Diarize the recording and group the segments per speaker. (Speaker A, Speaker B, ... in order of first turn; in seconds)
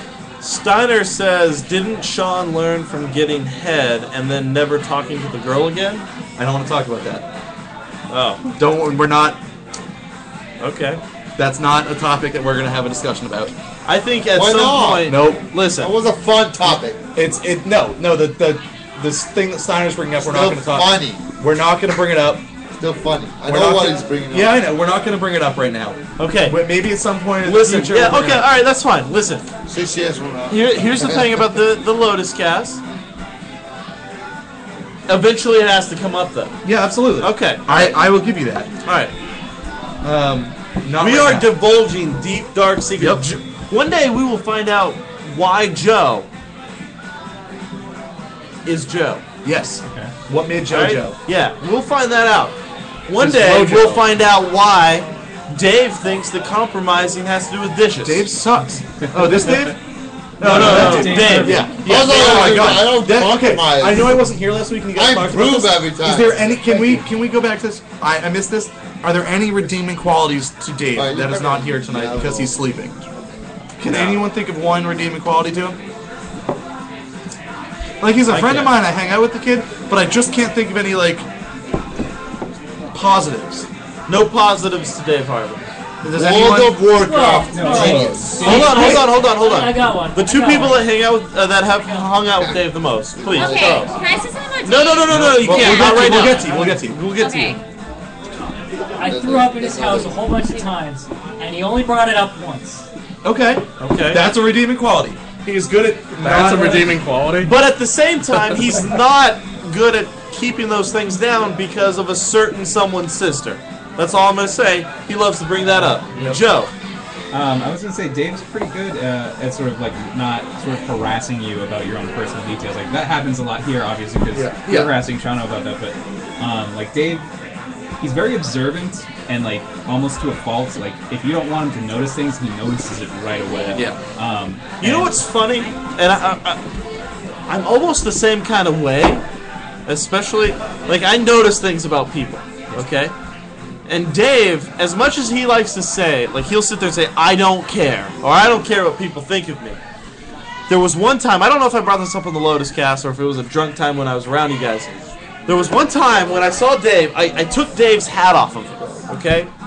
Speaker A: 0.4-6.1, 8.1-8.4, 10.6-11.0, 13.8-15.9, 26.2-26.6, 27.4-29.5, 30.5-32.8, 35.1-36.6, 37.2-38.0, 38.8-39.1, 41.0-46.3, 48.6-49.2, 50.7-52.5, 53.1-58.3, 60.4-61.7, 62.2-62.5, 73.9-74.2, 84.1-85.6, 88.4-93.9, 94.6-97.5, 103.8-104.3, 107.4-116.7, 134.8-136.6, 137.5-139.2, 139.9-143.1, 143.9-149.8, 150.7-154.9, 155.4-159.5
Speaker B: 6.4-7.2, 8.6-9.4, 11.4-13.5, 15.1-15.5, 16.7-22.4, 23.4-28.4, 36.6-38.7, 40.0-41.5, 43.0-43.3, 49.4-51.1, 53.2-53.9, 58.0-59.8, 60.4-73.0, 73.8-75.8, 78.0-81.2, 82.9-83.7, 86.0-86.9, 87.7-89.2, 95.1-97.3, 103.2-107.0, 116.1-116.4, 124.3-125.0
Speaker C: 14.3-15.2, 15.8-17.0, 20.2-21.2, 22.8-24.6, 29.7-31.4, 61.7-64.2, 64.9-67.0, 70.9-72.6, 73.1-73.4, 86.1-88.7, 92.3-92.6, 93.1-94.0, 99.0-100.2
Speaker D: 49.8-50.1, 59.2-59.6, 60.4-61.8, 78.3-78.7, 87.5-89.0, 117.3-127.2, 128.0-135.2
Speaker E: 53.2-54.0, 106.2-107.5
Speaker F: 86.9-90.9, 99.0-102.8
Speaker G: 93.3-96.2, 97.1-97.6, 133.5-133.8